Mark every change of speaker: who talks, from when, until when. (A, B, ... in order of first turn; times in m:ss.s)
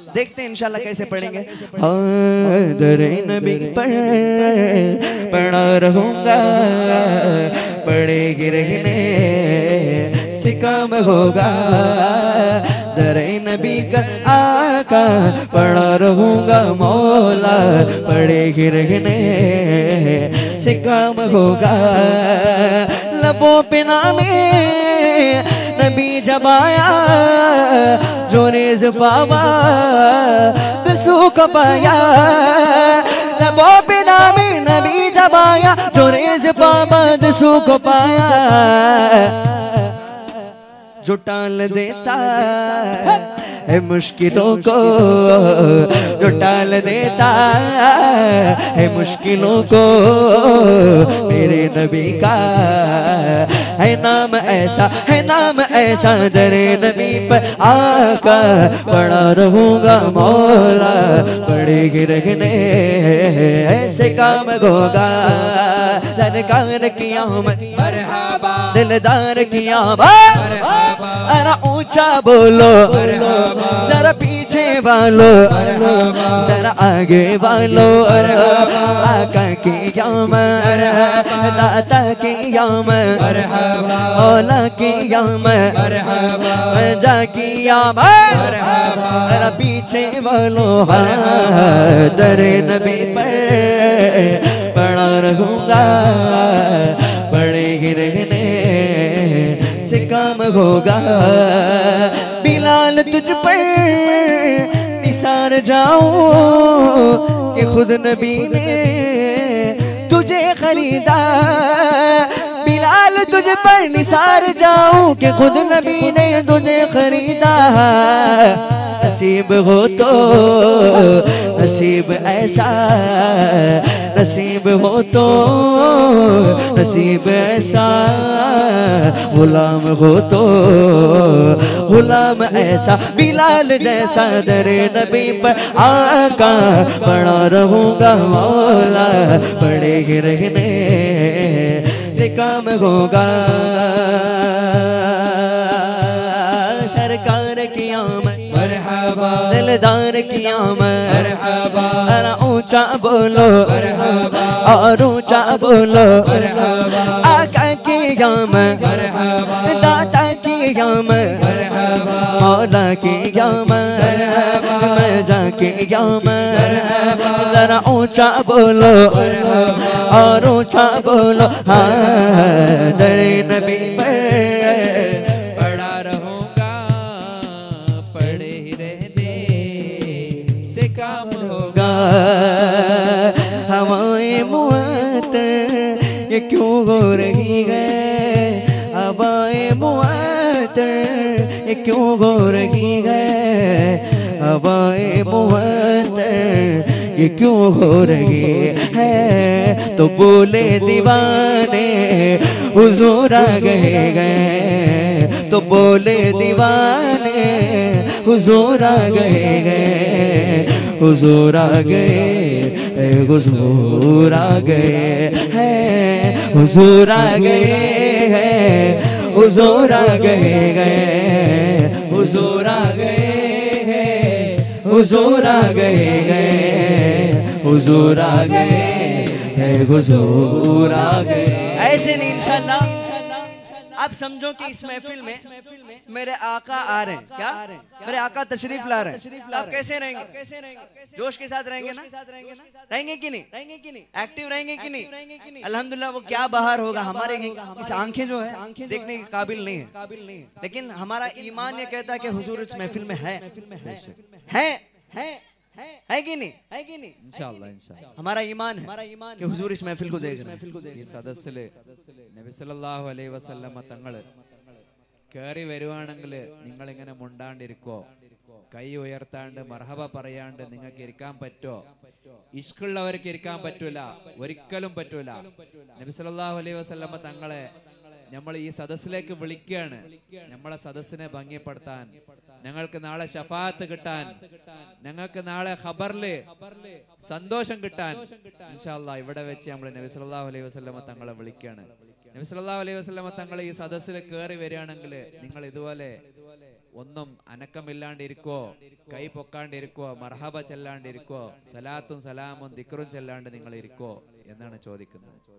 0:00.1-0:39.8 A
0:00.7-0:01.8 B
0:41.0-1:08.0 A
1:07.8-1:08.6 C
1:08.7-2:55.8 A
1:10.6-1:11.0 C
2:28.7-2:29.3 C
2:55.6-3:01.9 C
3:00.0-3:00.6 A
3:01.5-3:53.0 A
3:51.8-4:16.0 B
3:54.0-3:55.4 A
3:56.2-4:00.5 A
4:01.2-4:02.1 A
4:02.9-4:03.5 A
4:04.2-4:05.1 A
4:05.6-4:09.9 A
4:10.7-4:13.4 A
4:13.8-4:14.2 C
4:14.5-4:14.8 A
4:16.1-4:16.6 A
4:16.6-4:17.4 B
4:17.2-4:18.1 C
4:18.2-4:20.7 A
4:18.8-4:21.1 B
4:20.9-4:24.3 C
4:25.3-4:28.1 C
4:28.7-4:31.8 C
4:32.6-4:35.4 C
4:36.0-4:37.7 C
4:38.3-4:42.1 C
4:42.6-4:44.4 C
4:44.9-4:46.5 C
4:47.2-4:56.2 C
4:57.0-5:05.4 C